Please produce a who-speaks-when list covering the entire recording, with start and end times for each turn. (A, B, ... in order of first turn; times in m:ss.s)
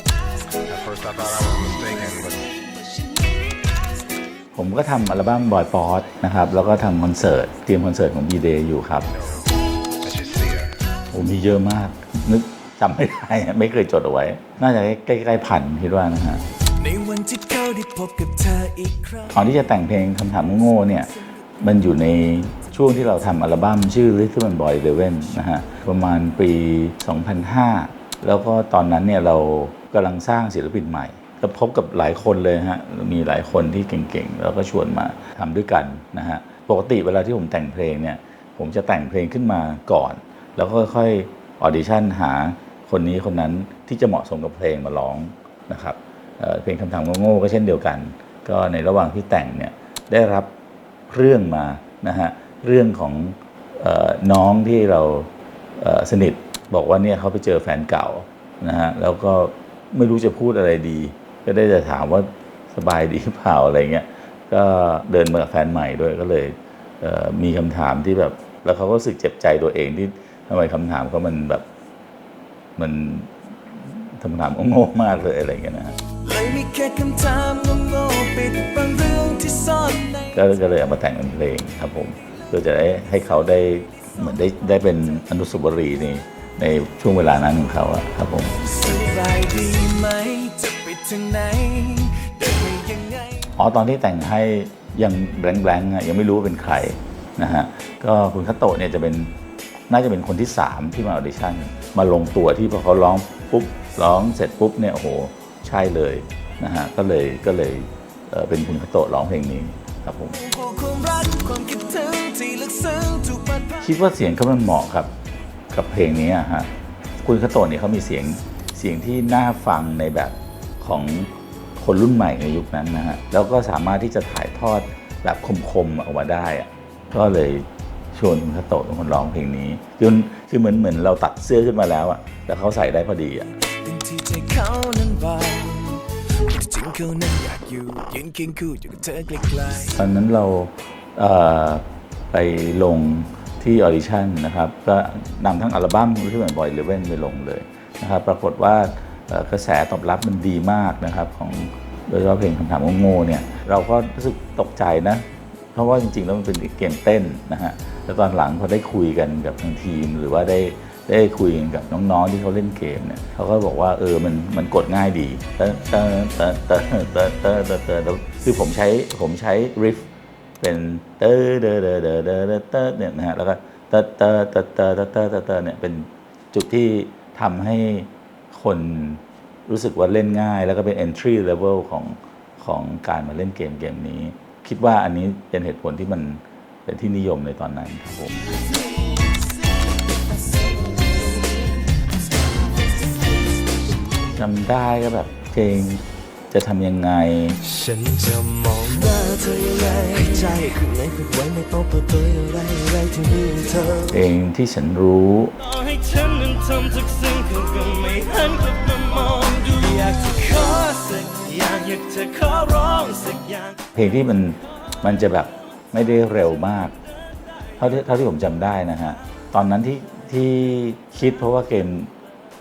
0:00.7-0:02.5 A
0:04.6-0:09.1 B
0:10.0-0:10.7 A
0:11.1-0:16.4 B
0:16.7-0:19.8 C
0:19.3-0:21.1 B
0:20.9-0:21.3 C
0:21.6-0:50.5 B
0:51.1-1:11.6 B
1:12.8-1:16.0 B
1:16.2-1:20.4 C
1:20.3-1:28.6 B
1:28.6-1:33.5 C
1:33.6-1:39.3 B
1:39.9-1:50.4 B
1:50.3-1:53.9 C
1:53.8-1:55.1 B
1:55.7-1:56.7 B
1:57.2-2:13.5 B
2:13.7-2:20.0 C
2:20.0-2:50.1 B
2:50.6-3:08.3 B
3:10.6-3:11.8 C
3:14.3-3:17.6 B
3:17.6-3:24.1 C
3:24.1-3:25.6 B
3:25.7-3:33.8 C
3:34.0-3:37.0 B
3:37.8-3:42.1 B